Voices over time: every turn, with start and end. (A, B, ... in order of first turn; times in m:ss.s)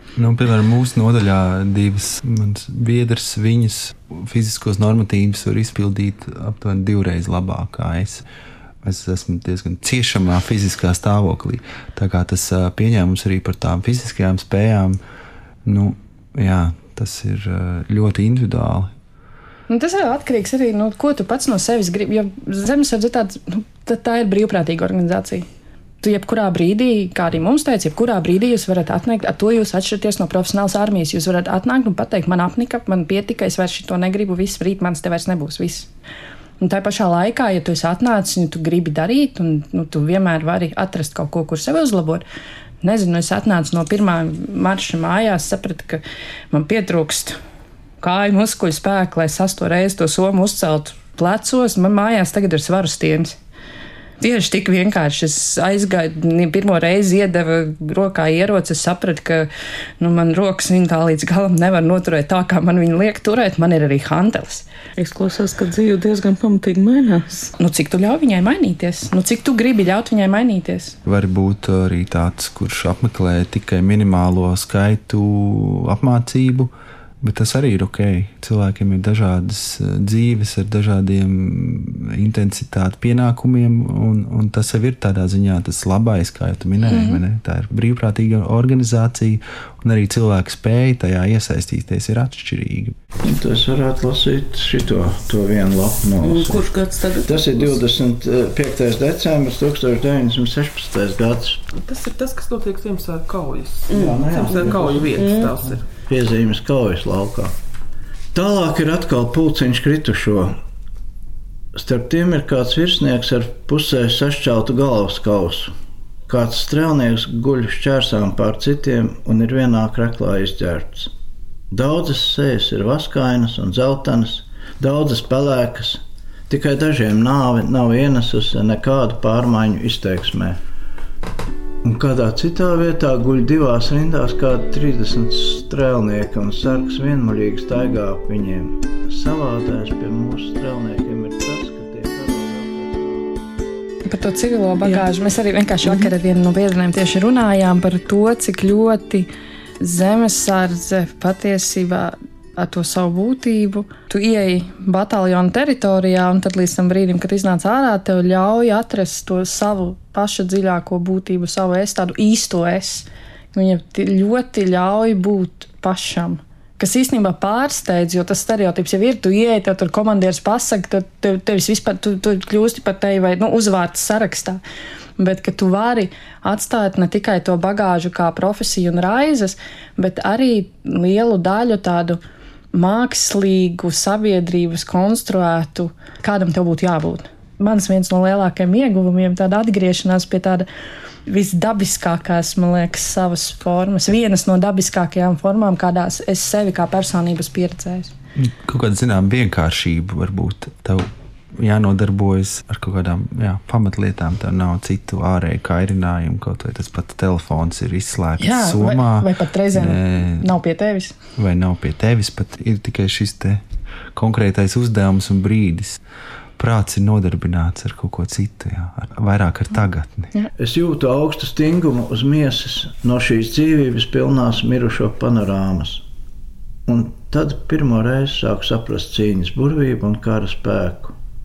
0:00.2-0:08.2 A
0:08.8-0:15.0 A
0:15.6-0:18.9 A
0:19.7-0:25.5 B
0:26.0-0:35.9 B
0:36.6-0:42.2 B
0:42.8-0:47.4 B
0:48.0-0:53.4 B
0:54.2-0:59.5 B
1:00.0-1:04.6 B
1:05.0-1:07.5 C
1:07.6-1:11.0 B
1:11.1-1:33.0 A
1:26.9-1:27.2 B
1:33.2-1:41.6 D
1:36.2-1:37.8 C
1:41.7-1:45.9 E
1:43.9-1:45.4 D
1:46.1-1:47.5 D
1:48.3-1:50.6 D
1:51.8-1:55.7 D
1:56.3-2:01.1 D
2:01.7-2:10.6 D
2:11.8-2:23.5 D
2:24.1-2:29.3 B
2:29.8-2:54.6 B
2:55.2-3:02.2 B
3:02.7-3:10.7 B
3:11.3-3:18.1 B
3:18.4-3:30.5 A
3:28.4-3:31.2 B
3:31.4-3:33.6 A
3:34.2-3:36.0 A
3:36.6-3:40.3 A
3:40.6-3:46.0 D
3:46.9-3:51.2 D